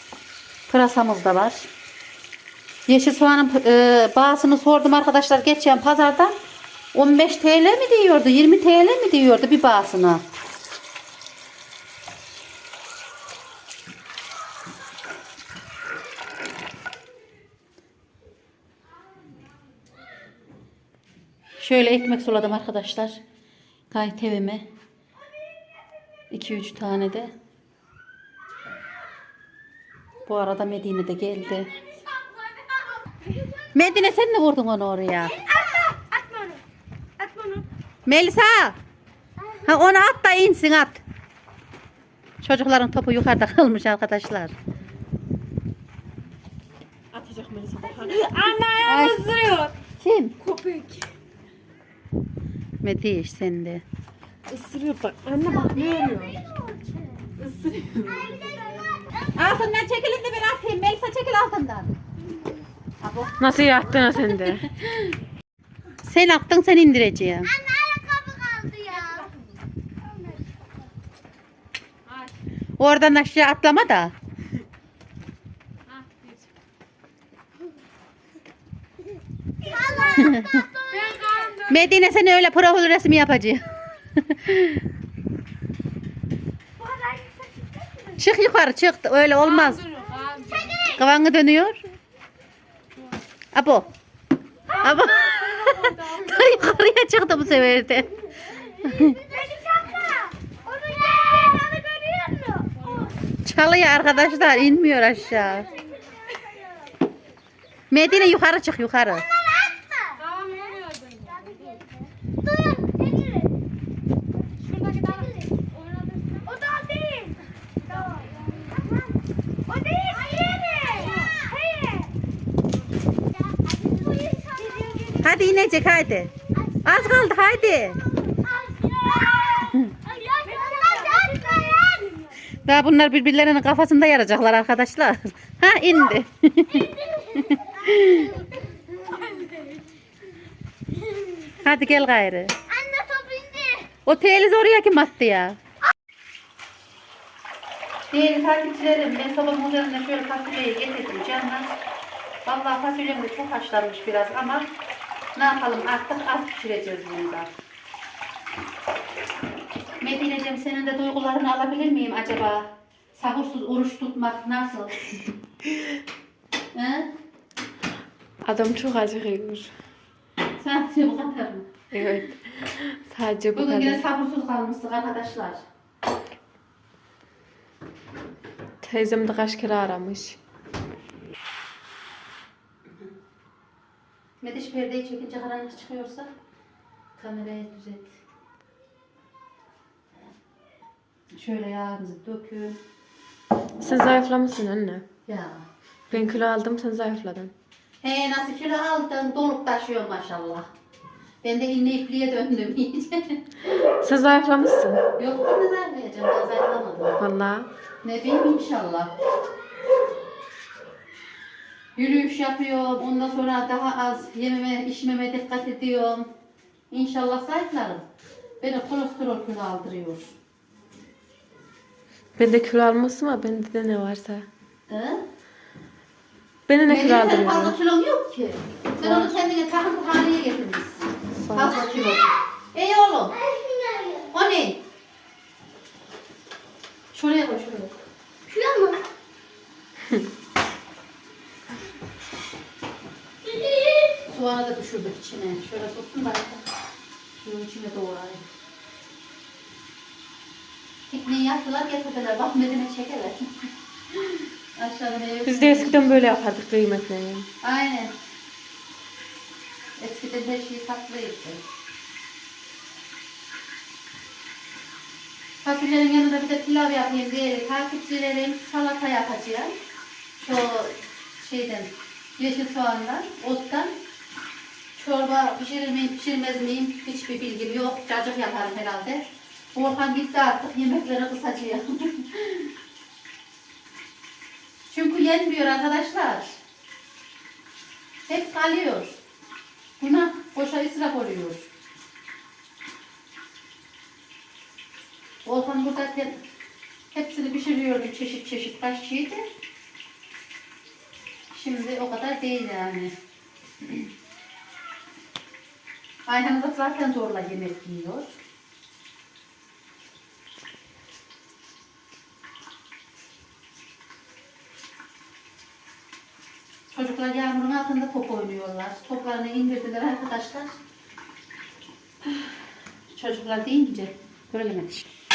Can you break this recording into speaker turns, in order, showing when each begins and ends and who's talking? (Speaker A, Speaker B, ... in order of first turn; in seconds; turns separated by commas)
Speaker A: 0.7-1.7, Speaker A: 2.9-6.3, Speaker A: 6.9-10.2, Speaker A: 21.6-23.2, Speaker A: 23.9-24.7, Speaker A: 26.3-27.3, Speaker A: 30.3-31.7, Speaker A: 33.7-35.4, Speaker B: 35.2-36.6, Speaker A: 38.1-38.8, Speaker B: 39.4-40.1, Speaker A: 39.7-41.0, Speaker A: 42.4-44.5, Speaker C: 47.1-49.8, Speaker B: 48.0-48.3, Speaker A: 48.8-49.3, Speaker A: 50.0-50.4, Speaker C: 50.4-51.1, Speaker A: 52.8-53.8, Speaker C: 54.5-56.4, Speaker B: 55.4-57.3, Speaker C: 57.4-58.5, Speaker B: 58.0-59.5, Speaker A: 59.3-61.9, Speaker B: 62.2-62.7, Speaker A: 63.0-63.4, Speaker C: 63.4-64.7, Speaker A: 66.0-67.5, Speaker B: 67.5-69.3, Speaker B: 70.0-70.7, Speaker A: 72.8-74.1, Speaker C: 76.0-76.3, Speaker B: 79.6-81.7, Speaker C: 79.7-80.2, Speaker A: 80.2-80.5, Speaker C: 81.0-81.7, Speaker A: 81.7-84.8, Speaker A: 88.2-89.9, Speaker C: 89.5-90.8, Speaker A: 90.8-91.8, Speaker A: 93.5-93.9, Speaker A: 94.8-98.1, Speaker C: 94.9-96.2, Speaker B: 98.5-103.1, Speaker A: 98.8-99.2, Speaker A: 103.5-105.7, Speaker B: 104.1-106.9, Speaker A: 107.9-109.3, Speaker B: 108.0-108.4, Speaker B: 109.1-113.5, Speaker C: 110.3-111.2, Speaker B: 114.7-115.7, Speaker B: 116.5-117.3, Speaker B: 117.8-121.6, Speaker B: 123.3-125.9, Speaker A: 125.2-126.3, Speaker B: 126.4-132.4, Speaker A: 126.8-128.0, Speaker A: 129.7-129.9, Speaker A: 132.6-136.9, Speaker B: 136.7-139.8, Speaker A: 137.8-138.3, Speaker B: 141.0-142.0, Speaker A: 141.6-142.5, Speaker B: 142.7-143.9, Speaker A: 144.1-145.6, Speaker A: 148.1-151.7, Speaker A: 152.4-154.7, Speaker A: 155.4-157.5, Speaker A: 160.0-165.1, Speaker A: 166.7-167.1, Speaker C: 168.4-169.8, Speaker A: 170.6-171.7, Speaker C: 171.9-174.0, Speaker A: 173.6-175.7, Speaker C: 178.8-180.4, Speaker A: 184.4-186.3, Speaker A: 187.2-188.1, Speaker A: 191.3-192.8, Speaker C: 193.8-195.1, Speaker A: 195.3-195.7, Speaker C: 196.1-197.5, Speaker A: 198.0-200.7, Speaker A: 201.4-203.4, Speaker C: 204.0-205.0, Speaker A: 205.2-207.2, Speaker C: 207.2-207.7, Speaker A: 208.0-209.1, Speaker A: 212.0-216.3, Speaker A: 216.9-218.0, Speaker A: 218.6-220.3, Speaker C: 222.4-224.5, Speaker A: 224.9-225.2, Speaker C: 226.7-227.8, Speaker A: 226.8-233.3, Speaker C: 229.0-229.3, Speaker C: 231.5-231.8, Speaker B: 233.3-234.3, Speaker A: 234.3-234.8, Speaker A: 237.1-237.9, Speaker B: 238.5-239.0, Speaker B: 243.4-244.2, Speaker A: 244.3-246.6, Speaker A: 247.4-248.4, Speaker A: 251.1-253.7, Speaker A: 254.8-256.2, Speaker C: 255.5-257.5, Speaker A: 257.6-258.1, Speaker A: 260.0-261.6, Speaker A: 265.6-269.7, Speaker A: 270.4-273.9, Speaker A: 274.9-282.7, Speaker A: 284.9-286.6, Speaker A: 288.3-289.2, Speaker A: 290.0-291.7, Speaker A: 295.4-296.4, Speaker A: 297.1-299.4, Speaker A: 301.5-303.1, Speaker A: 306.3-308.4, Speaker A: 316.9-320.8, Speaker A: 323.1-325.1